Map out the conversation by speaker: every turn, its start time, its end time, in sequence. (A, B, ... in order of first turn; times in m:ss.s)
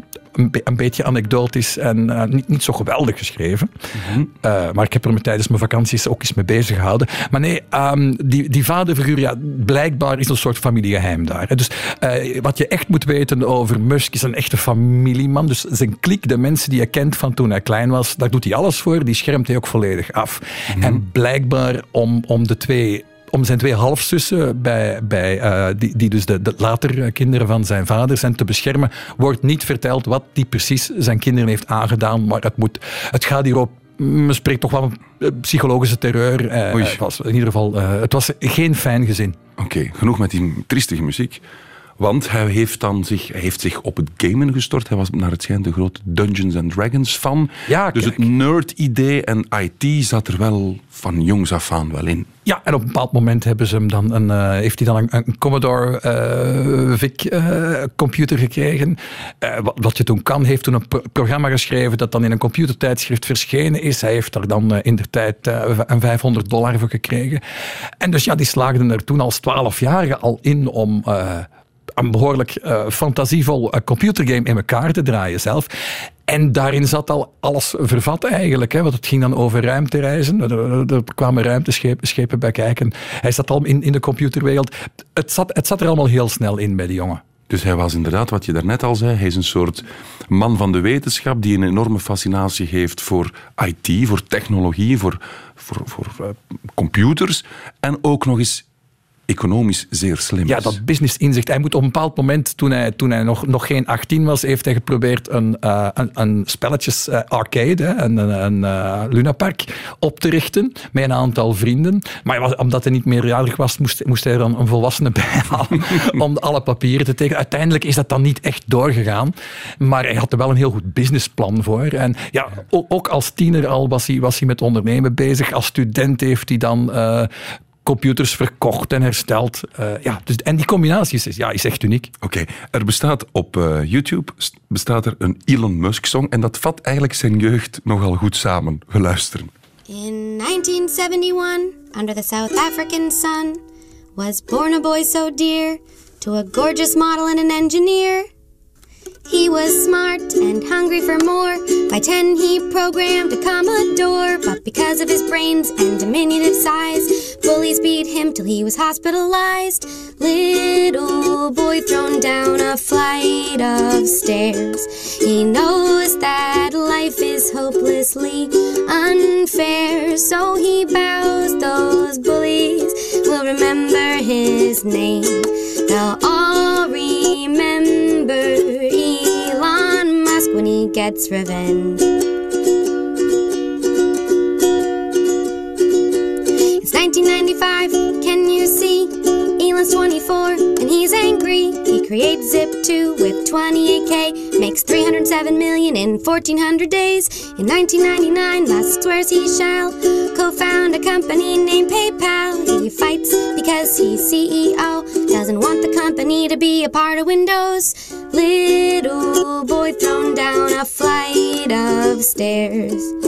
0:00.3-0:03.7 A
0:04.0-0:04.3 B
0:04.4-0:39.4 A
0:20.7-0:21.0 B
0:36.7-0:37.0 B
0:39.6-0:41.4 B
0:42.0-0:52.3 B
0:47.7-0:48.3 A
0:52.5-1:07.4 A
1:08.0-1:15.7 A
1:16.3-1:27.2 A
1:27.5-1:38.7 B
1:39.3-1:40.8 B
1:40.5-2:07.3 A
2:07.8-2:12.1 A
2:12.2-2:19.5 B
2:19.9-2:23.6 C
2:24.2-2:28.3 C
2:29.3-3:02.2 C
3:06.8-3:33.1 C